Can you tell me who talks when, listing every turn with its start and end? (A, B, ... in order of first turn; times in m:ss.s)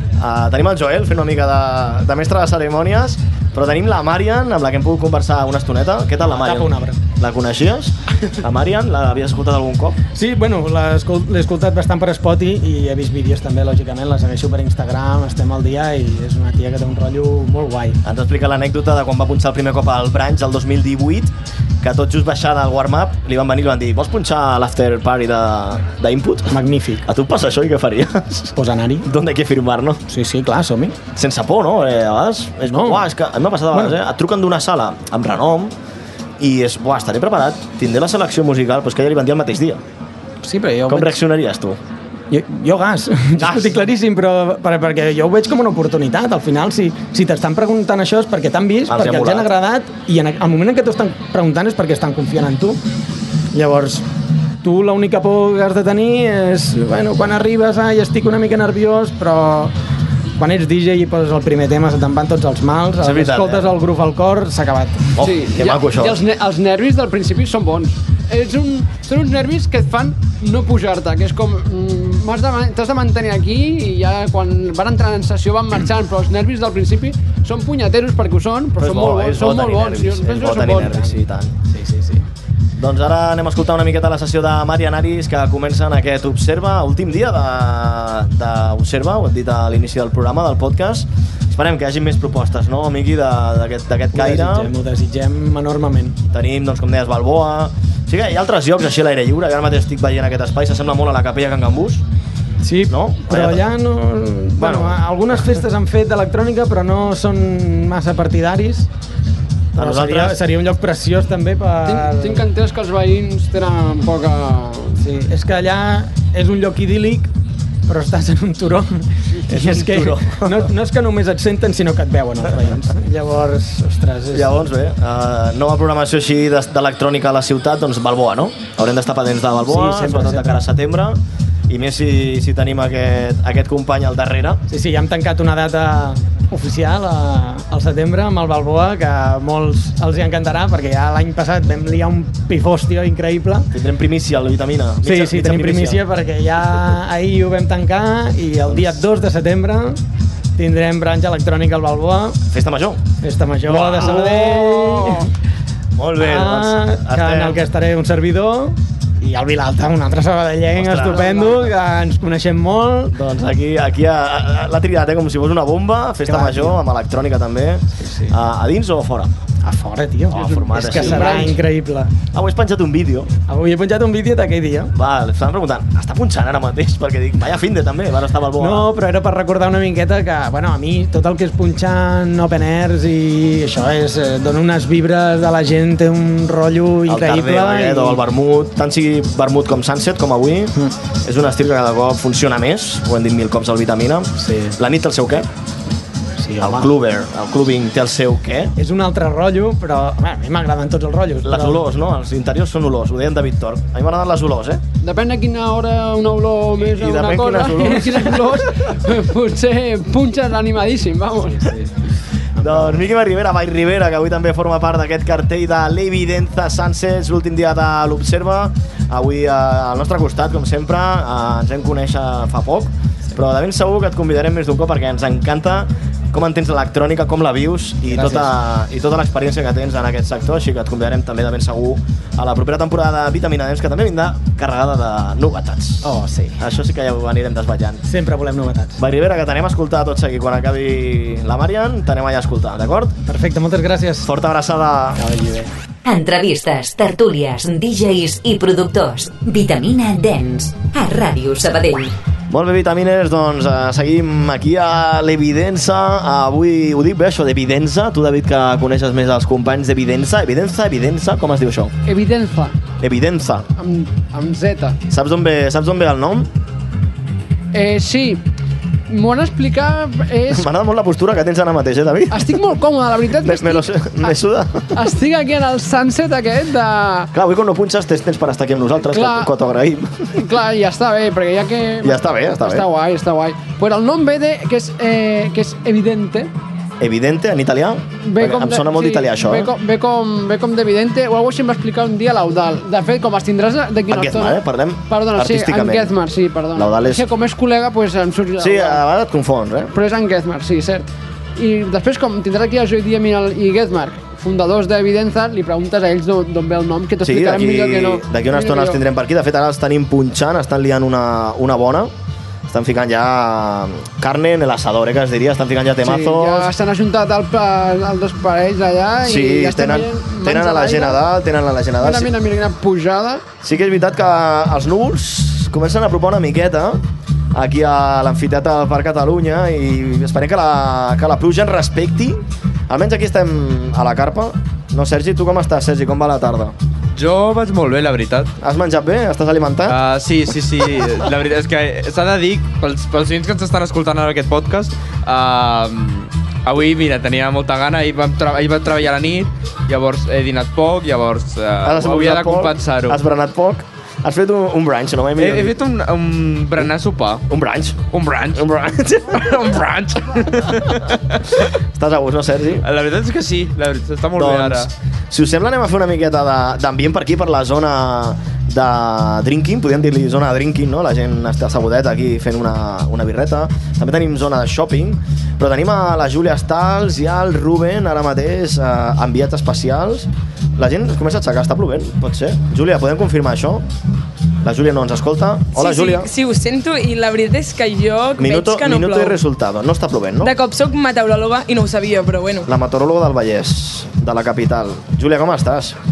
0:00.2-0:10.0 A
0:06.3-0:07.0 B
0:10.2-0:18.0 B
0:18.0-0:28.5 A
0:26.5-0:27.0 B
0:28.6-0:29.1 B
0:29.0-0:30.0 A
0:30.1-0:31.0 B
0:31.1-0:35.7 A
0:32.7-0:33.1 B
0:36.4-0:39.8 A
0:40.4-0:41.2 B
0:40.9-0:41.8 A
0:42.3-0:52.8 B
0:43.4-0:43.8 A
0:48.9-0:49.5 A
0:53.5-0:54.1 B
0:54.6-0:59.7 B
1:00.4-1:05.2 B
1:03.0-1:03.7 A
1:05.2-1:06.2 A
1:05.2-1:21.1 C
1:18.8-1:21.6 A
1:21.7-1:22.2 B
1:22.8-1:34.7 A
1:34.1-1:36.2 B
1:36.3-1:42.0 A
1:42.6-1:48.9 B
1:42.9-1:43.6 A
1:44.6-1:45.0 A
1:49.8-1:50.4 A
1:49.8-1:52.5 B
1:51.8-1:55.0 C
1:55.0-1:57.3 B
1:57.9-2:04.6 B
1:59.5-2:00.7 A
2:04.3-2:14.6 A
2:09.6-2:10.6 B
2:14.7-2:23.7 B
2:23.7-2:26.0 A
2:25.0-2:30.0 B
2:28.7-2:29.0 A
2:30.6-2:32.4 B
2:32.5-2:33.0 A
2:33.2-2:35.3 B
2:33.7-2:35.2 A
2:36.0-2:37.6 A
2:36.2-2:43.2 B
2:40.8-2:41.7 A
2:43.1-2:49.3 A
2:46.2-2:46.8 B
2:48.0-2:48.3 B
2:49.6-2:52.1 B
2:50.3-2:51.6 A
2:52.3-2:53.3 A
2:53.5-2:54.9 B
2:54.9-2:58.9 A
2:58.6-3:08.2 B
3:07.1-3:10.7 A
3:11.2-3:15.5 A
3:14.4-3:14.8 B
3:16.4-3:16.9 B
3:16.6-3:18.7 A
3:18.8-3:21.8 B
3:21.4-3:24.8 A
3:25.0-3:31.7 C
3:26.8-3:28.4 A
3:32.6-3:33.0 B
3:32.6-3:58.0 A
3:48.1-3:48.5 B
3:56.0-3:56.6 B
3:58.1-3:59.0 B
3:59.0-4:03.2 A
4:03.3-4:04.3 B
4:04.2-4:05.2 A
4:05.2-4:05.7 B
4:06.0-4:12.1 D
4:12.5-4:21.9 A
4:22.1-4:22.7 C
4:23.0-4:23.6 A
4:23.8-4:25.0 C
4:25.1-4:26.5 A
4:27.7-4:28.4 C
4:29.1-4:30.7 C
4:30.5-4:32.5 A
4:32.3-4:34.3 C
4:33.4-4:34.9 A
4:34.9-4:37.3 C
4:37.3-4:40.3 A
4:39.1-4:39.5 C
4:40.4-4:46.5 C
4:42.0-4:42.8 A
4:47.0-4:49.7 A
4:48.2-4:59.0 C
4:54.1-4:56.1 A
4:56.8-4:57.2 A
4:58.6-4:59.9 A
4:59.9-5:09.0 C
5:07.2-5:12.1 A
5:12.7-5:16.7 A
5:16.0-5:21.2 C
5:19.2-5:22.3 A
5:22.0-5:23.4 C
5:23.6-5:27.0 A
5:27.5-5:36.7 A
5:37.2-5:38.5 E
5:38.6-5:40.0 A
5:39.9-5:53.2 E
5:51.8-5:55.8 A
5:55.4-5:57.4 E
5:57.5-5:59.5 A
5:58.1-5:58.6 E
5:59.3-6:01.4 E
6:02.0-6:02.8 A
6:02.8-6:04.9 E
6:04.4-6:23.8 A
6:24.6-6:26.3 A
6:25.8-6:29.4 F
6:28.4-6:30.5 A
6:30.4-6:32.7 F
6:32.7-6:36.0 A